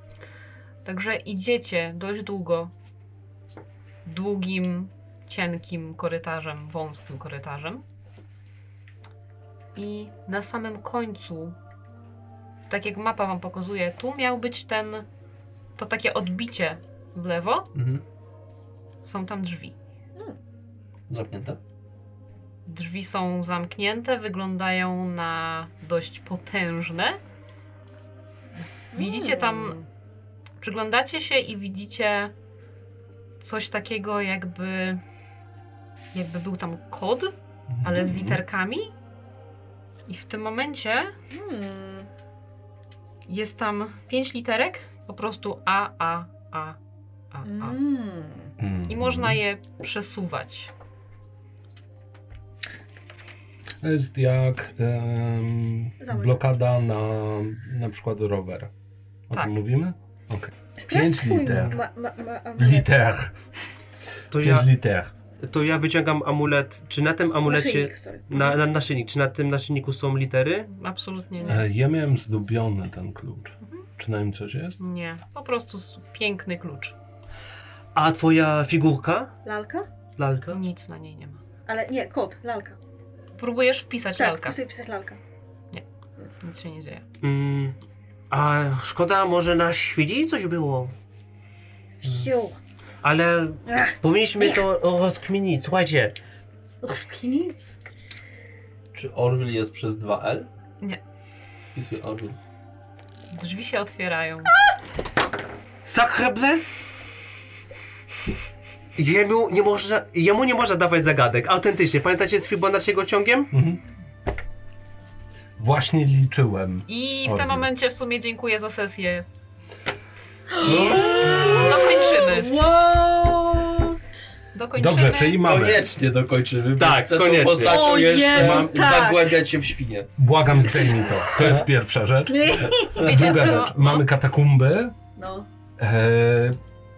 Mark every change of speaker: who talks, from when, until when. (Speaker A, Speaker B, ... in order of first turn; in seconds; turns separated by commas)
Speaker A: 0.8-2.7, Speaker A: 4.0-7.8, Speaker A: 9.7-11.6, Speaker A: 12.7-15.1, Speaker A: 15.8-17.7, Speaker B: 17.7-18.0, Speaker A: 19.0-19.7, Speaker B: 21.1-21.6, Speaker A: 22.6-27.2, Speaker C: 28.9-29.8, Speaker A: 28.9-29.9, Speaker A: 30.6-32.3, Speaker A: 33.4-35.0, Speaker A: 36.1-38.9, Speaker D: 37.7-38.4, Speaker A: 40.1-41.1, Speaker C: 41.3-42.1, Speaker A: 43.3-46.8, Speaker A: 47.3-47.8, Speaker C: 47.4-48.5, Speaker D: 48.6-49.4, Speaker A: 48.9-50.7, Speaker D: 53.8-58.7, Speaker C: 56.0-56.4, Speaker D: 59.3-61.8, Speaker A: 59.3-59.6, Speaker C: 60.8-62.9, Speaker D: 62.6-63.3, Speaker E: 64.3-64.7, Speaker D: 64.3-65.1, Speaker E: 65.4-70.7, Speaker C: 67.5-68.2, Speaker A: 70.7-71.7, Speaker D: 71.4-74.8, Speaker A: 74.8-76.9, Speaker E: 77.9-79.3, Speaker C: 79.4-79.9, Speaker E: 80.2-80.6, Speaker A: 80.5-81.4, Speaker C: 81.7-82.8, Speaker A: 83.4-84.6, Speaker C: 84.2-85.2, Speaker A: 86.4-87.0, Speaker E: 87.2-87.8, Speaker E: 88.3-90.9, Speaker C: 92.0-92.5, Speaker E: 93.0-96.1, Speaker C: 93.7-94.6, Speaker C: 96.8-97.6, Speaker B: 98.9-100.5, Speaker B: 101.7-102.4, Speaker A: 103.3-104.5, Speaker E: 105.8-106.6, Speaker E: 109.0-113.5, Speaker D: 113.5-113.8, Speaker D: 115.6-117.7, Speaker A: 116.9-119.2, Speaker C: 120.5-124.0, Speaker B: 120.6-121.9, Speaker A: 120.6-122.6, Speaker A: 124.5-125.5, Speaker D: 124.7-125.9, Speaker B: 125.4-130.1, Speaker E: 126.8-128.7, Speaker C: 127.5-129.4, Speaker D: 128.4-128.6, Speaker D: 130.2-134.9, Speaker C: 130.7-131.1, Speaker B: 131.4-131.7, Speaker C: 132.3-133.7, Speaker A: 132.9-134.1, Speaker C: 135.2-135.4, Speaker D: 135.8-136.6